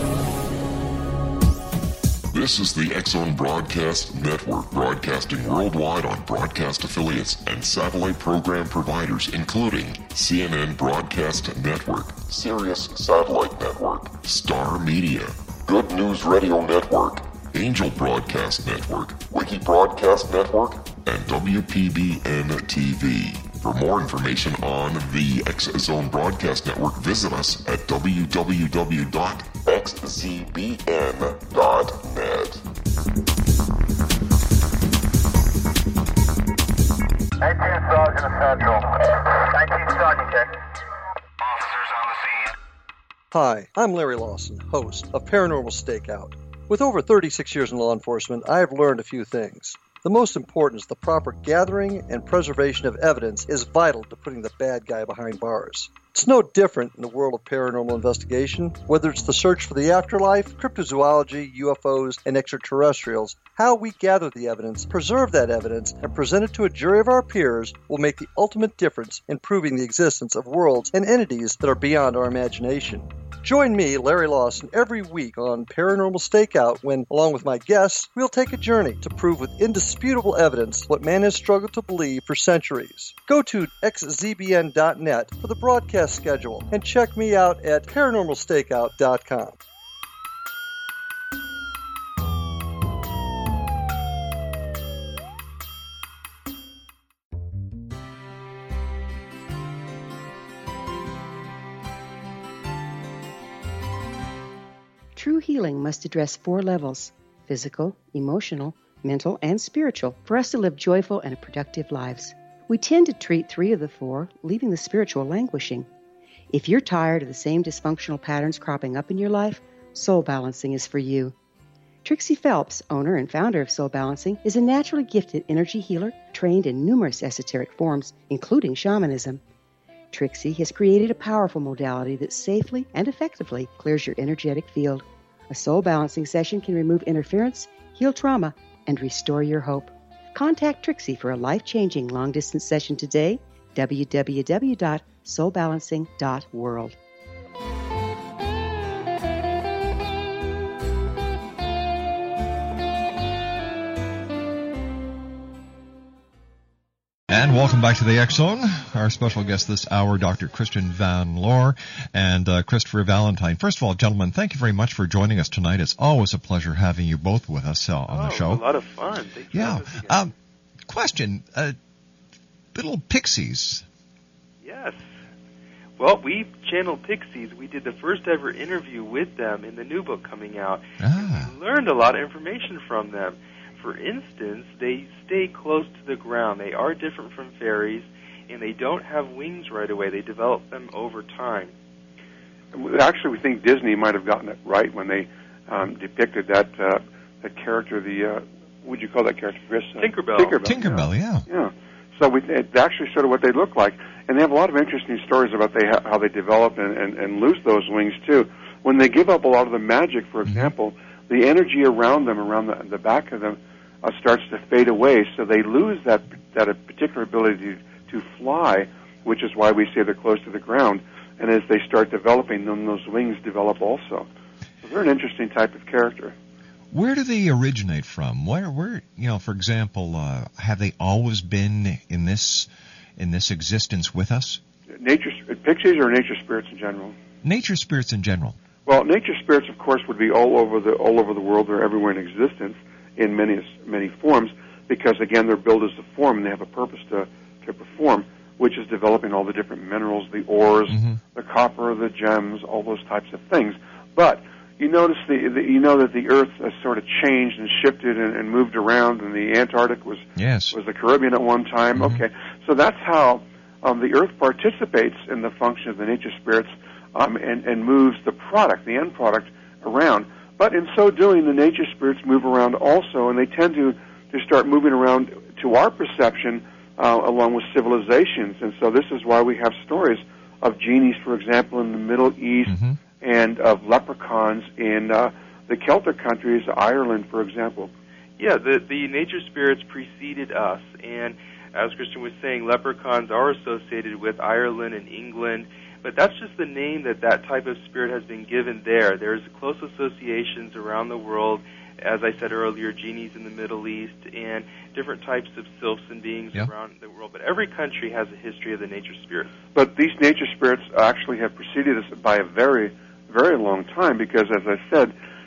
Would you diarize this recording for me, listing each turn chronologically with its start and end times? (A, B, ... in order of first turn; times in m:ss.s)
0:02.3-0:32.6 A
0:37.5-0:40.5 B
0:43.3-1:29.6 C
1:45.2-1:55.9 D
1:56.5-2:01.4 D
2:02.0-2:09.4 D
2:10.1-2:27.0 D
2:37.3-2:48.6 E
2:48.1-2:50.3 F
2:49.5-2:50.3 E
2:50.9-2:51.8 E
2:52.8-2:53.8 E
2:54.6-2:55.0 F
2:56.0-3:11.7 F
3:01.0-3:01.5 E
3:12.7-3:44.3 G
3:20.0-3:20.6 F
3:20.4-3:21.5 E
3:30.5-3:30.7 E
3:44.8-3:46.4 G
3:46.9-3:54.6 E
3:55.0-3:57.2 G
3:57.4-3:58.6 E
3:58.9-4:47.9 G
4:10.9-4:11.2 E
4:20.4-4:20.8 E
4:22.0-4:22.2 E
4:42.7-4:43.0 E
4:48.4-5:09.5 F
5:09.8-5:15.1 G